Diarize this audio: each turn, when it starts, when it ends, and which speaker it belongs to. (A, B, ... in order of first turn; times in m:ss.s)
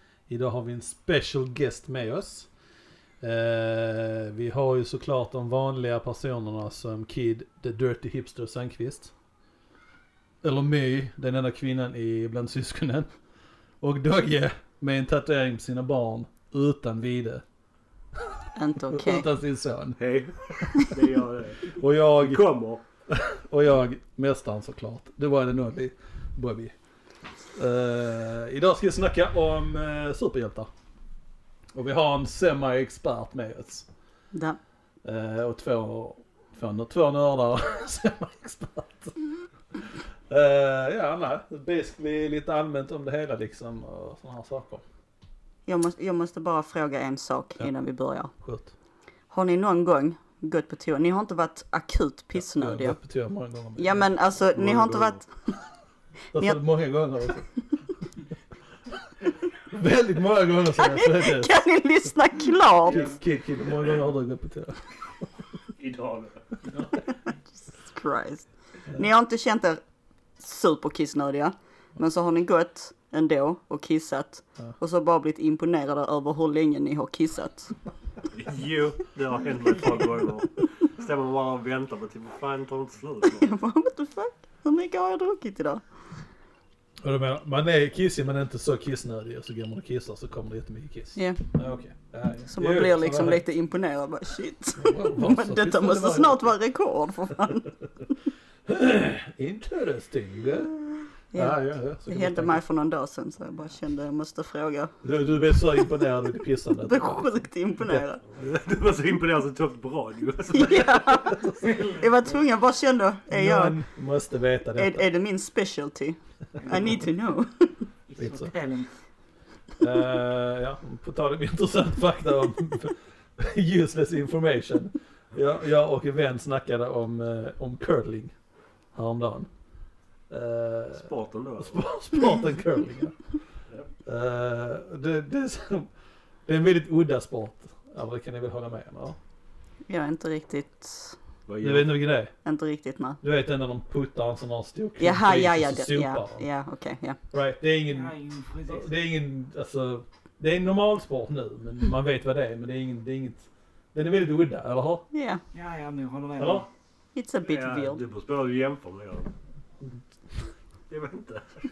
0:00.3-0:02.5 A
0:03.2-0:09.1 A
0:10.4-0:13.1 A
0:13.8-0:17.4 A
0:18.5-0:19.3 B
0:18.9-0:20.0 A
0:20.0-0:22.8 C
0:21.7-0:22.4 A
0:23.1-0:26.7 A
0:27.5-0:30.7 A
0:31.7-0:33.8 A
0:34.3-0:34.6 B
0:35.0-0:39.2 A
0:39.7-0:44.8 A
0:45.6-0:48.3 B
0:48.3-0:48.7 A
0:49.3-0:53.0 B
0:52.4-0:54.0 A
0:53.8-0:55.3 B
0:54.5-0:55.2 C
0:56.3-0:57.5 A
0:59.7-1:01.6 A
1:00.8-1:03.1 B
1:02.9-1:04.8 A
1:05.8-1:06.4 C
1:07.6-1:09.8 B
1:10.4-1:17.7 B
1:18.3-1:23.5 C
1:23.4-1:25.8 B
1:27.0-1:33.4 A
1:31.1-1:31.4 B
1:32.5-1:37.7 B
1:34.8-1:36.5 A
1:38.6-1:42.6 A
1:41.3-1:45.0 B
1:45.0-1:48.4 A
1:46.8-1:48.2 B
1:48.4-1:51.2 C
1:50.5-1:53.8 B
1:53.3-1:55.1 A
1:54.8-1:57.8 B
1:56.6-1:57.0 D
1:58.1-1:58.9 D
1:58.2-1:58.5 A
1:59.8-2:08.3 A
2:08.9-2:09.5 A
2:10.3-2:11.1 A
2:10.9-2:11.9 C
2:11.6-2:13.2 A
2:14.0-2:15.9 A
2:16.4-2:19.2 A
2:19.9-2:21.2 B
2:21.5-2:22.0 C
2:21.6-2:22.3 A
2:22.4-2:23.2 B
2:23.2-2:26.4 A
2:25.0-2:27.2 B
2:27.3-2:28.2 A
2:27.9-2:28.9 D
2:28.7-2:35.0 A
2:35.1-2:35.4 B
2:35.5-2:36.6 D
2:36.4-2:36.7 A
2:37.1-2:38.0 B
2:37.4-2:39.3 C
2:40.9-2:41.6 C